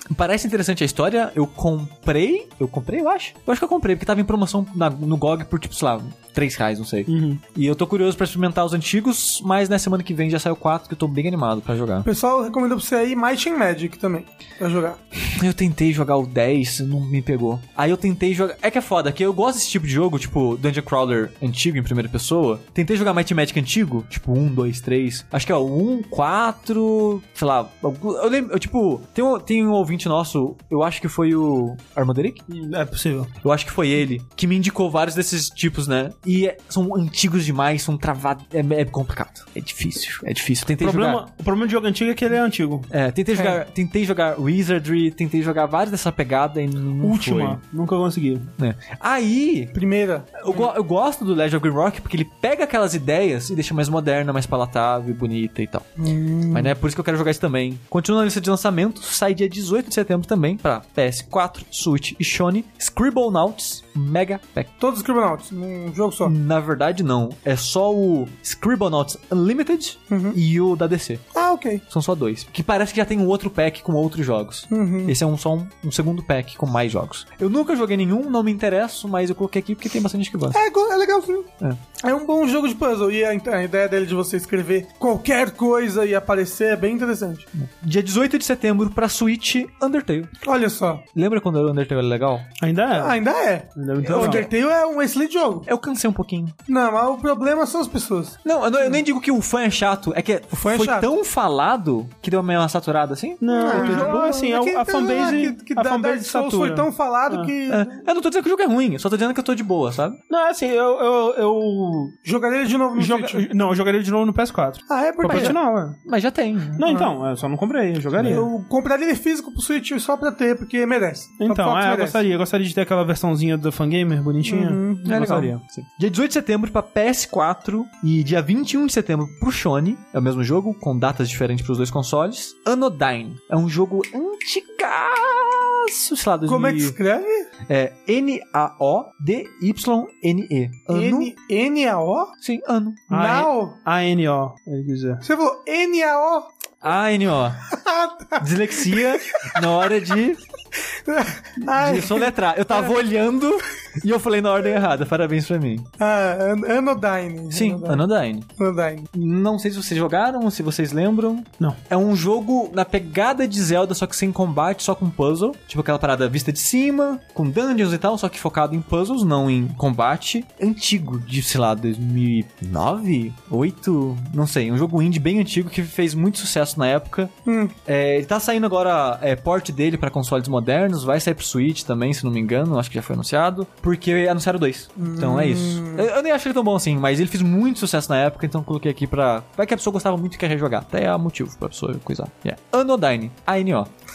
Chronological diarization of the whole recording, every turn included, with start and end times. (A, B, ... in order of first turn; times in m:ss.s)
0:00.1-0:12.1 A
0:07.1-0:07.4 B
0:12.0-0:15.0 C
0:15.3-0:32.4 A
0:32.5-0:33.3 B
0:33.4-0:41.2 A
0:40.8-0:42.9 B
0:42.9-0:47.6 A
0:47.0-0:48.5 B
0:48.6-0:49.8 A
0:49.7-0:50.7 C
0:50.4-0:55.9 A
0:56.0-0:56.7 C
0:56.5-1:04.7 A
1:04.8-1:06.3 C
1:06.2-1:11.3 A
1:10.1-1:10.4 C
1:11.3-1:11.8 C
1:11.9-1:20.6 A
1:14.7-1:15.1 C
1:20.5-1:21.5 C
1:22.0-1:27.5 C
1:27.6-1:30.3 A
1:30.4-1:31.0 C
1:31.2-1:32.5 A
1:32.6-1:33.2 B
1:32.9-1:35.7 C
1:33.8-1:34.5 B
1:34.1-1:34.5 A
1:35.7-1:36.6 A
1:36.7-1:39.0 C
1:38.4-1:44.2 A
1:40.5-1:41.1 C
1:43.4-1:47.5 B
1:43.5-1:48.0 C
1:47.7-1:50.2 A
1:50.3-1:52.2 B
1:52.2-1:53.5 C
1:53.0-1:56.0 B
1:54.9-1:55.6 C
1:55.2-1:56.8 A
1:56.8-1:58.5 B
1:58.2-2:02.2 C
2:01.4-2:05.5 B
2:04.4-2:05.1 C
2:05.1-2:17.0 A
2:16.5-2:17.5 C
2:17.7-2:21.3 A
2:20.9-2:22.3 C
2:22.4-2:23.1 A
2:23.1-2:25.2 B
2:23.1-2:23.8 C
2:25.2-2:26.5 C
2:26.8-2:27.6 A
2:27.7-2:29.7 C
2:28.4-2:30.4 A
2:30.9-2:32.3 C
2:31.8-2:35.9 A
2:36.0-2:38.0 C
2:37.5-2:38.5 A
2:38.6-2:39.1 C
2:39.1-2:57.3 A
2:57.4-2:57.7 C
2:57.8-3:13.9 A
3:05.0-3:06.1 C